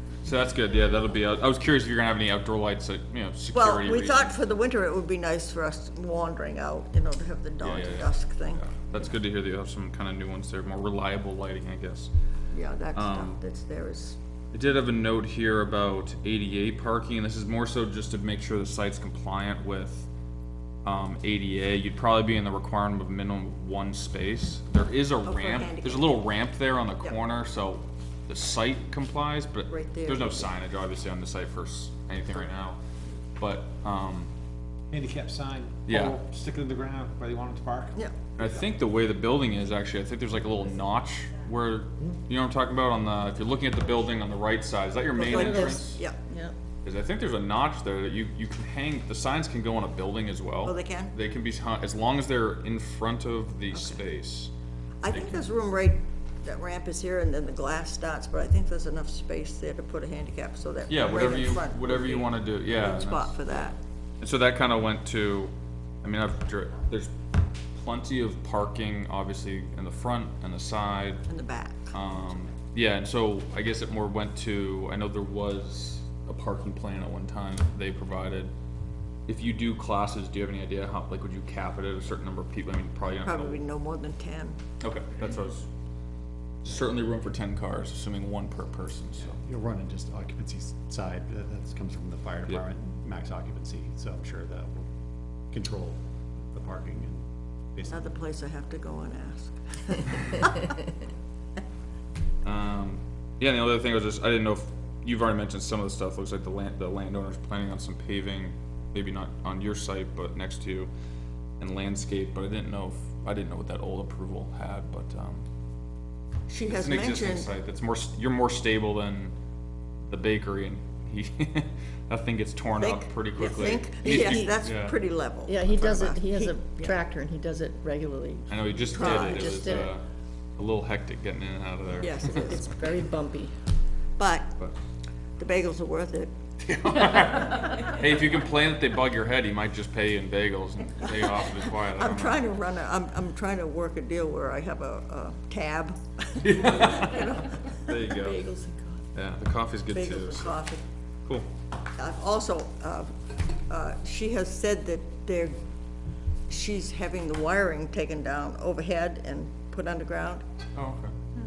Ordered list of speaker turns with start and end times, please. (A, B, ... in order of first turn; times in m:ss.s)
0:00.2-0:04.4 A
0:03.5-0:08.6 B
0:07.6-0:12.1 A
0:12.5-0:14.2 B
0:12.9-0:13.4 A
0:14.5-0:20.1 A
0:20.8-0:32.8 A
0:25.2-0:26.1 B
0:29.7-0:30.5 B
0:33.4-0:34.3 A
0:34.9-0:38.0 C
0:35.9-0:36.2 A
0:38.4-0:46.0 A
0:45.2-0:46.2 B
0:45.2-0:46.6 D
0:46.8-0:54.5 A
0:50.6-0:51.2 B
0:53.7-0:54.0 B
0:55.0-1:03.8 B
0:55.1-0:55.5 A
1:00.9-1:03.5 A
1:04.2-1:07.1 A
1:07.7-1:11.3 A
1:11.3-1:12.0 B
1:11.9-1:18.5 A
1:19.3-1:23.6 A
1:23.2-1:24.6 B
1:24.8-1:25.7 A
1:26.6-1:29.4 A
1:29.2-1:34.9 E
1:35.5-1:38.1 E
1:37.9-1:40.7 B
1:42.4-1:50.9 A
1:51.6-1:55.4 A
1:56.5-1:57.5 B
1:56.7-1:59.3 A
2:00.1-2:05.0 A
2:02.8-2:07.0 B
2:04.0-2:04.5 D
2:05.5-2:09.9 D
2:08.5-2:10.0 A
2:08.8-2:09.8 B
2:10.6-2:12.6 A
2:12.0-2:12.7 B
2:12.3-2:13.5 D
2:14.2-2:14.6 B
2:15.4-2:16.3 B
2:16.6-2:22.4 A
2:21.9-2:28.9 B
2:26.4-2:28.5 A
2:29.2-2:30.6 A
2:29.9-2:30.8 B
2:32.0-2:35.6 B
2:36.5-2:40.4 B
2:40.8-2:41.1 A